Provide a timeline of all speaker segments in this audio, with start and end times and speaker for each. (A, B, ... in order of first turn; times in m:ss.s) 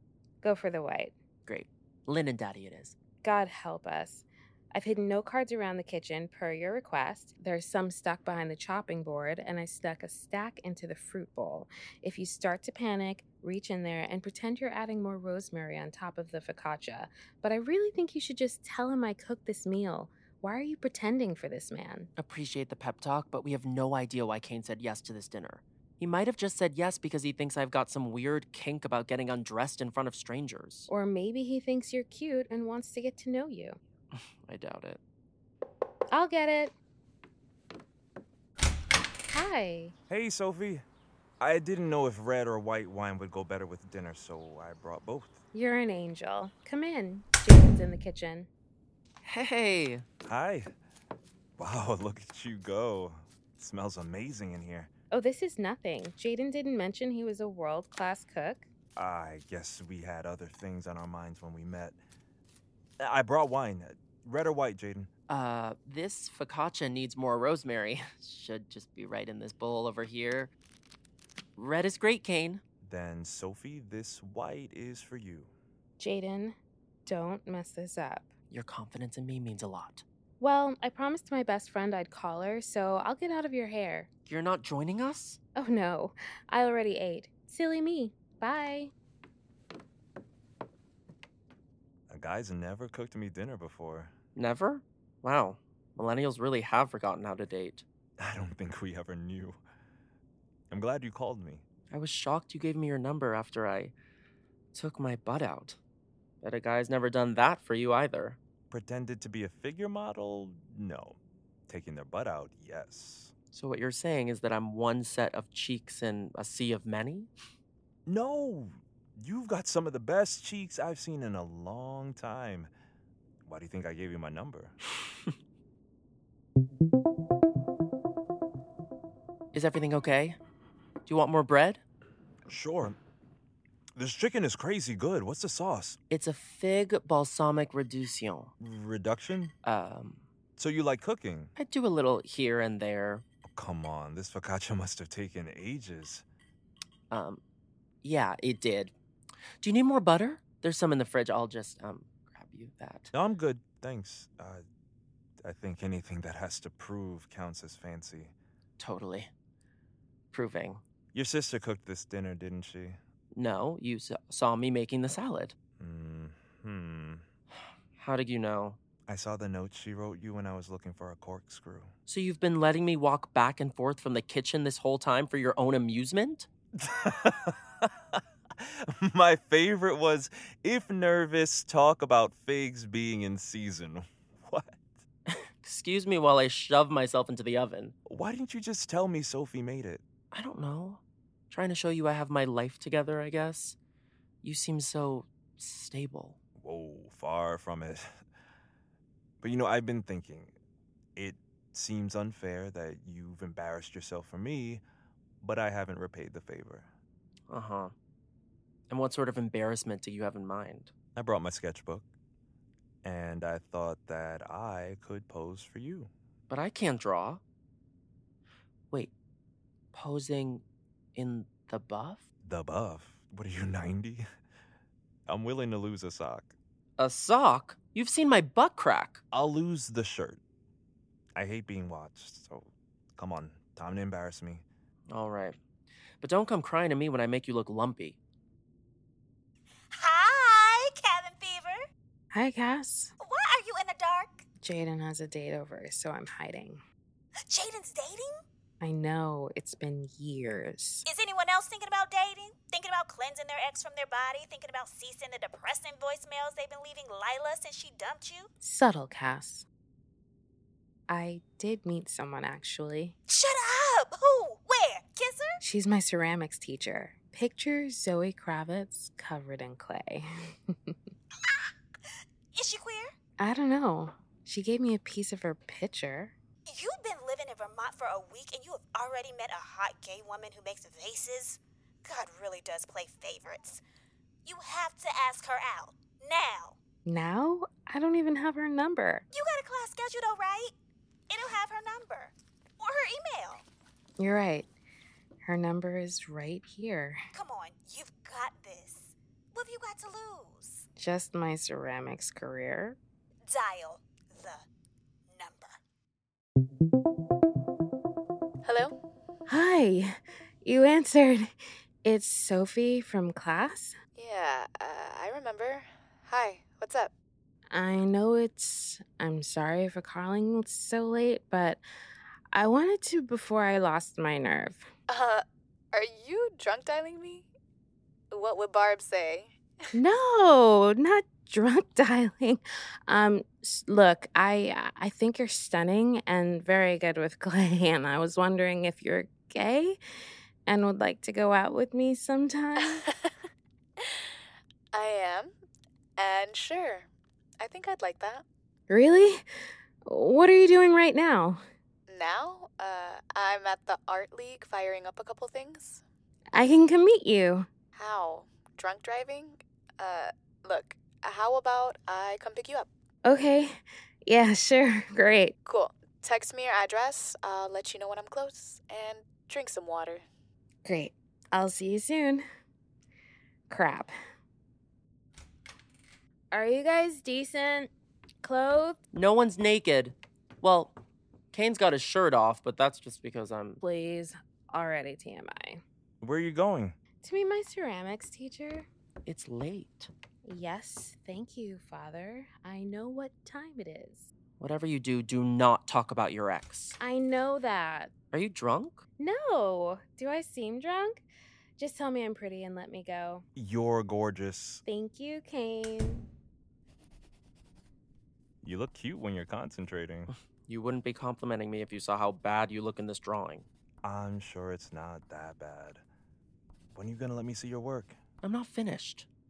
0:00.4-0:01.2 A
0:01.4-0:03.0 B
0:03.2-0:22.1 A
0:22.2-0:30.9 B
0:30.9-0:33.8 A
0:34.2-0:35.0 B
0:36.1-0:36.7 A
0:39.3-0:40.0 A
0:40.1-0:40.8 C
0:41.4-0:45.4 C
0:45.5-0:48.5 A
0:49.2-0:50.0 B
0:50.2-0:50.7 C
0:51.6-0:54.9 C
0:55.1-0:58.7 A
0:59.0-1:02.0 C
1:03.0-1:05.1 C
1:05.3-1:10.5 B
1:11.6-1:12.6 B
1:12.8-1:15.5 C
1:16.0-1:18.3 A
1:18.5-1:20.0 B
1:20.4-1:24.1 A
1:24.3-1:25.4 B
1:25.6-1:28.9 A
1:32.1-1:34.1 C
1:34.4-1:37.8 B
1:38.2-1:39.6 C
1:40.7-1:41.6 C
1:41.9-1:43.9 B
1:44.7-1:45.8 B
1:46.4-1:48.4 B
1:48.7-1:53.3 C
1:53.5-1:57.3 B
1:58.1-2:02.7 C
2:03.4-2:04.8 C
2:09.5-2:10.4 B
2:11.1-2:11.8 B
2:12.5-2:13.0 C
2:14.0-2:16.0 C
2:16.1-2:18.5 B
2:18.6-2:19.5 C
2:19.6-2:20.2 B
2:20.6-2:21.5 C
2:21.6-2:23.2 B
2:23.5-2:26.2 C
2:27.1-2:27.4 B
2:28.0-2:28.9 B
2:29.6-2:33.1 B
2:33.1-2:34.6 C
2:35.4-2:38.3 C
2:38.8-2:39.3 B
2:40.3-2:40.8 B
2:41.1-2:43.0 C
2:43.3-2:45.6 B
2:45.8-2:47.2 C
2:48.0-2:48.8 B
2:49.1-2:51.9 C
2:52.1-2:56.5 B
2:56.8-2:57.9 C
2:58.6-3:04.8 C
3:05.3-3:07.9 B
3:08.1-3:10.0 C
3:10.3-3:13.8 B
3:14.4-3:16.4 B
3:16.6-3:18.1 C
3:19.4-3:20.5 C
3:21.2-3:24.8 C
3:25.4-3:26.9 C
3:27.5-3:27.9 B
3:28.9-3:30.9 B
3:31.2-3:32.1 C
3:33.0-3:36.1 C
3:36.5-3:37.4 B
3:39.9-3:40.6 B
3:41.2-3:42.2 B
3:42.4-3:44.3 C
3:45.3-3:46.5 C
3:47.0-3:49.2 B
3:49.3-3:50.4 C
3:51.4-3:54.6 C
3:55.1-3:55.6 B
3:56.2-3:58.2 B
3:59.9-4:01.8 D
4:02.3-4:03.1 A
4:03.2-4:04.4 D
4:04.6-4:06.8 A
4:07.5-4:08.4 D
4:08.8-4:11.1 A
4:11.1-4:18.5 D
4:18.6-4:19.7 A
4:21.1-4:23.2 A
4:23.3-4:25.6 D
4:25.6-4:31.0 A
4:32.5-4:33.2 D
4:33.4-4:36.4 A
4:36.7-4:43.8 D
4:44.4-4:46.8 D
4:47.0-4:49.3 A
4:49.3-4:50.7 D
4:51.3-4:53.6 D
4:54.2-4:54.7 A
4:55.4-4:57.2 A
4:57.3-5:00.9 D
5:01.0-5:03.0 A
5:03.5-5:04.6 D
5:05.3-5:05.8 D
5:08.6-5:09.0 E
5:09.5-5:11.5 A
5:12.0-5:14.0 A
5:14.2-5:17.1 E
5:17.7-5:21.8 A
5:22.5-5:24.9 A
5:25.1-5:27.5 E
5:28.3-5:29.6 E
5:29.9-5:40.0 A
5:40.7-5:43.0 A
5:44.9-5:45.5 E
5:46.2-5:47.1 E
5:47.6-5:48.4 E
5:48.9-5:49.4 A
5:50.1-5:51.6 A
5:52.1-5:56.0 E
5:56.5-5:57.7 A
5:58.0-6:02.9 E
6:03.2-6:05.6 A
6:05.7-6:10.2 E
6:10.8-6:12.4 A
6:13.7-6:14.1 A
6:16.5-6:17.9 A
6:18.4-6:19.0 A
6:19.1-6:21.0 B
6:21.5-6:23.8 B
6:23.8-6:25.8 A
6:26.2-6:27.0 C
6:27.2-6:28.9 A
6:29.3-6:30.1 B
6:30.4-6:34.3 A
6:34.6-6:37.0 B
6:37.0-6:38.1 A
6:38.3-6:39.0 B
6:39.2-6:41.2 A
6:41.8-6:43.4 A
6:43.6-6:44.8 C
6:44.8-6:46.3 A
6:48.6-6:50.3 C
6:50.3-6:53.7 B
6:54.0-6:56.0 C
6:57.0-6:58.2 C
6:58.4-6:59.3 B